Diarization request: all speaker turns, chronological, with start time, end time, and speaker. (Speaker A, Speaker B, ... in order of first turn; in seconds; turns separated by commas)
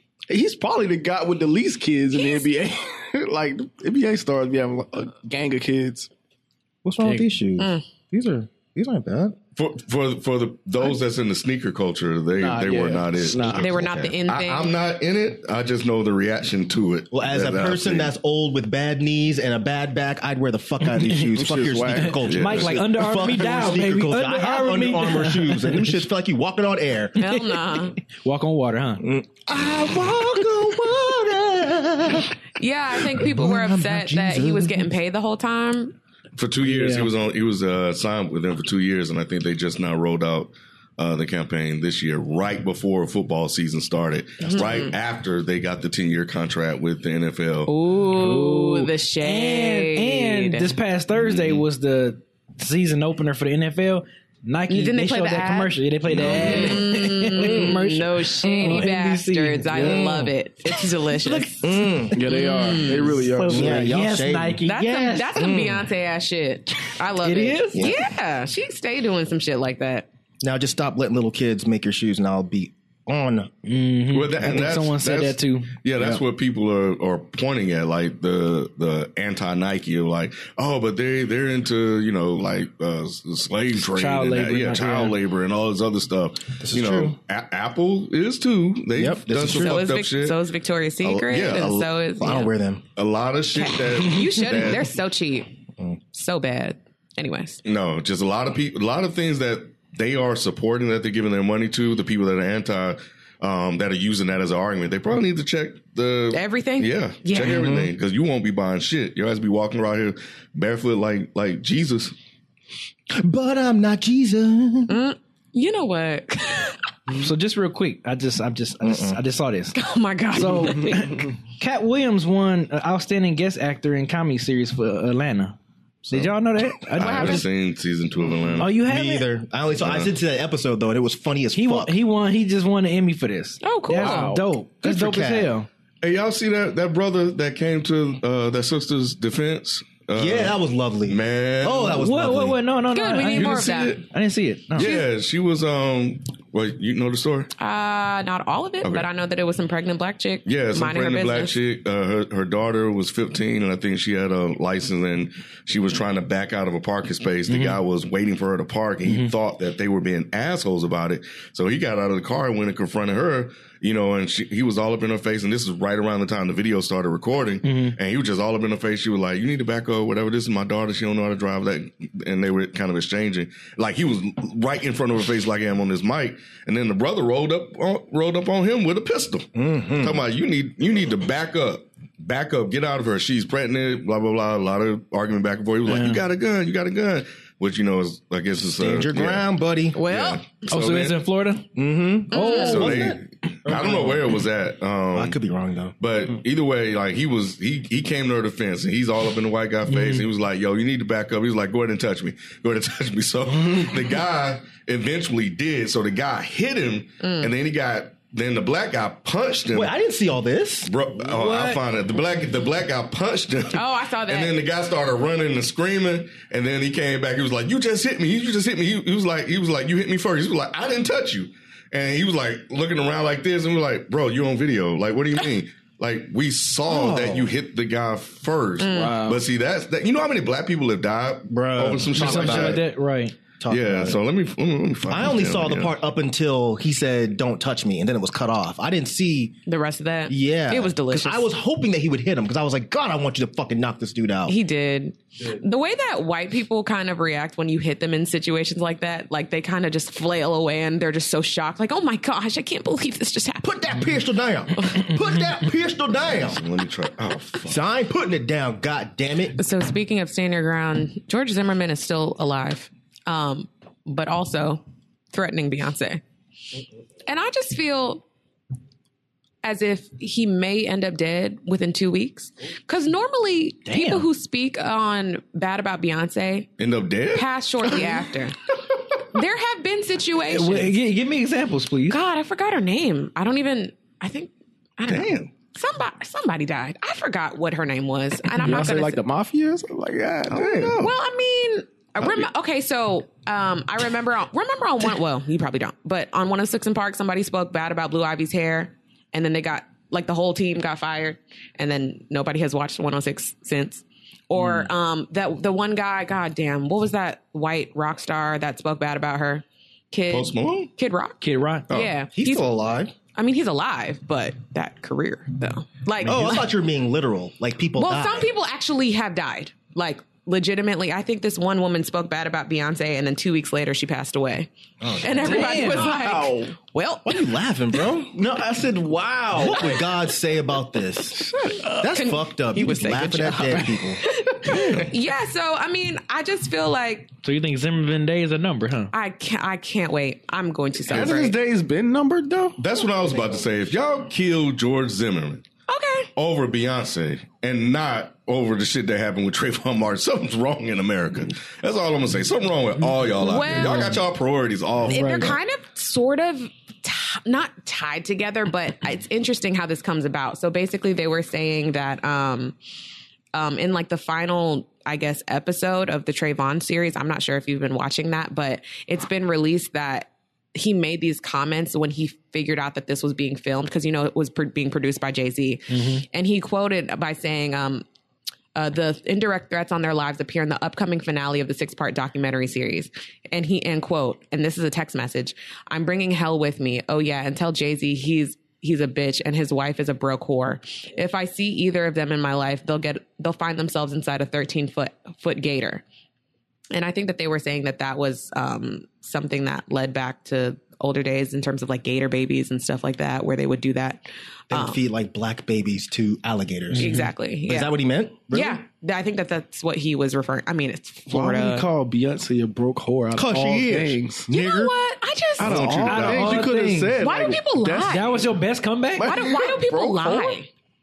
Speaker A: 0.3-6.1, Speaker B: 2.1-2.5, Speaker C: 6.8-9.4, Speaker B: 7.6-7.8, Speaker D: 9.6-13.7, Speaker A: 12.4-13.7, Speaker C: 13.3-14.2, Speaker B: 13.6-14.7, Speaker D: 14.3-18.1, Speaker C: 17.1-27.2, Speaker E: 20.9-21.3, Speaker A: 21.3-22.3, Speaker E: 22.0-26.0, Speaker D: 22.2-22.8, Speaker B: 27.2-28.0, Speaker E: 27.2-29.1, Speaker C: 29.0-32.4, Speaker B: 32.5-36.0, Speaker C: 33.0-34.9, Speaker D: 36.4-47.7, Speaker E: 36.6-37.1, Speaker B: 44.4-44.9, Speaker C: 44.5-44.8, Speaker B: 47.7-50.7, Speaker E: 48.1-62.0, Speaker D: 51.2-51.6, Speaker B: 54.7-63.2, Speaker C: 61.6-62.2, Speaker A: 62.1-64.0, Speaker E: 62.9-65.5, Speaker C: 63.5-64.6, Speaker B: 64.6-70.1, Speaker C: 65.4-65.9, Speaker E: 67.2-68.0, Speaker C: 67.7-68.0, Speaker C: 70.4-73.5, Speaker E: 73.6-75.8, Speaker D: 74.1-90.4, Speaker E: 83.7-85.2, Speaker C: 86.6-87.2, Speaker C: 89.0-89.9, Speaker B: 89.5-92.5, Speaker D: 91.0-91.9, Speaker C: 92.2-92.8, Speaker D: 93.0-94.9, Speaker B: 93.5-95.5, Speaker B: 96.1-97.6, Speaker D: 97.6-112.1, Speaker B: 106.3-107.6, Speaker C: 107.3-107.9, Speaker C: 113.1-114.9, Speaker B: 114.9-116.8, Speaker E: 117.1-119.8, Speaker C: 118.8-119.2, Speaker B: 119.7-121.2, Speaker E: 120.3-127.5, Speaker D: 126.9-128.7, Speaker B: 127.0-127.5, Speaker E: 128.6-129.3, Speaker C: 128.8-131.9, Speaker D: 129.8-130.1, Speaker E: 131.6-135.7, Speaker B: 133.6-134.4, Speaker A: 134.0-134.3, Speaker C: 134.8-135.5, Speaker D: 136.0-142.0, Speaker C: 140.2-142.6, Speaker E: 141.9-144.9, Speaker B: 142.9-144.0, Speaker D: 143.3-144.1, Speaker D: 144.7-147.5, Speaker B: 144.8-145.1, Speaker B: 147.6-151.6, Speaker D: 148.8-149.1, Speaker D: 150.4-191.2, Speaker E: 157.5-157.8, Speaker E: 159.1-159.3, Speaker E: 167.6-167.9, Speaker C: 179.6-180.2, Speaker E: 185.9-186.2, Speaker C: 188.6-190.0, Speaker B: 189.9-190.4, Speaker E: 190.7-191.7, Speaker C: 191.7-194.1, Speaker B: 192.3-192.9, Speaker E: 192.3-193.2, Speaker D: 192.5-195.4, Speaker E: 193.7-194.0, Speaker C: 195.1-195.9, Speaker D: 196.0-209.9, Speaker E: 199.9-200.3, Speaker B: 207.2-207.5, Speaker C: 209.7-210.9, Speaker D: 210.9-232.8, Speaker E: 211.2-211.8, Speaker B: 213.7-214.6, Speaker C: 226.9-227.5, Speaker B: 228.8-229.3, Speaker C: 231.5-232.8, Speaker E: 232.1-233.3, Speaker C: 233.6-234.2, Speaker D: 233.7-235.9, Speaker C: 235.1-239.6, Speaker B: 239.7-241.5, Speaker C: 240.3-244.6, Speaker B: 244.5-253.8, Speaker C: 253.6-256.6, Speaker D: 256.2-257.8, Speaker C: 257.7-259.6, Speaker B: 259.6-266.2, Speaker B: 267.3-268.2, Speaker B: 269.6-276.7, Speaker E: 273.9-274.3, Speaker D: 276.8-278.1, Speaker B: 277.3-281.0, Speaker E: 280.4-282.2, Speaker B: 282.1-289.2, Speaker D: 285.1-285.5, Speaker A: 288.6-290.9, Speaker D: 290.5-291.1, Speaker B: 291.0-312.7, Speaker D: 292.2-292.4, Speaker D: 310.3-310.9, Speaker E: 311.4-311.9, Speaker C: 312.3-313.1, Speaker B: 313.3-316.7, Speaker C: 316.2-318.5, Speaker B: 318.0-327.4, Speaker C: 325.0-325.6, Speaker A: 325.4-326.7, Speaker E: 325.5-326.1, Speaker C: 327.2-328.4, Speaker A: 328.3-330.1, Speaker C: 329.6-335.0, Speaker A: 331.4-331.9, Speaker B: 332.0-337.3, Speaker E: 337.4-339.1, Speaker B: 339.1-341.6, Speaker A: 341.1-342.8, Speaker D: 341.1-341.4, Speaker D: 342.8-345.6, Speaker B: 345.9-346.3, Speaker D: 346.4-355.6, Speaker B: 353.4-354.2, Speaker E: 353.7-354.0, Speaker B: 355.1-362.8, Speaker B: 363.5-378.1, Speaker E: 375.9-376.2, Speaker B: 378.7-396.0, Speaker B: 396.9-405.0, Speaker C: 404.7-408.8, Speaker E: 406.9-407.3, Speaker B: 407.0-408.0, Speaker B: 408.5-411.9, Speaker A: 411.3-414.5, Speaker C: 413.4-414.9, Speaker B: 414.5-415.9, Speaker A: 415.6-418.2, Speaker D: 415.6-416.7, Speaker E: 416.0-417.2, Speaker B: 417.2-418.4, Speaker E: 418.0-419.4, Speaker A: 419.2-420.6, Speaker B: 419.2-420.7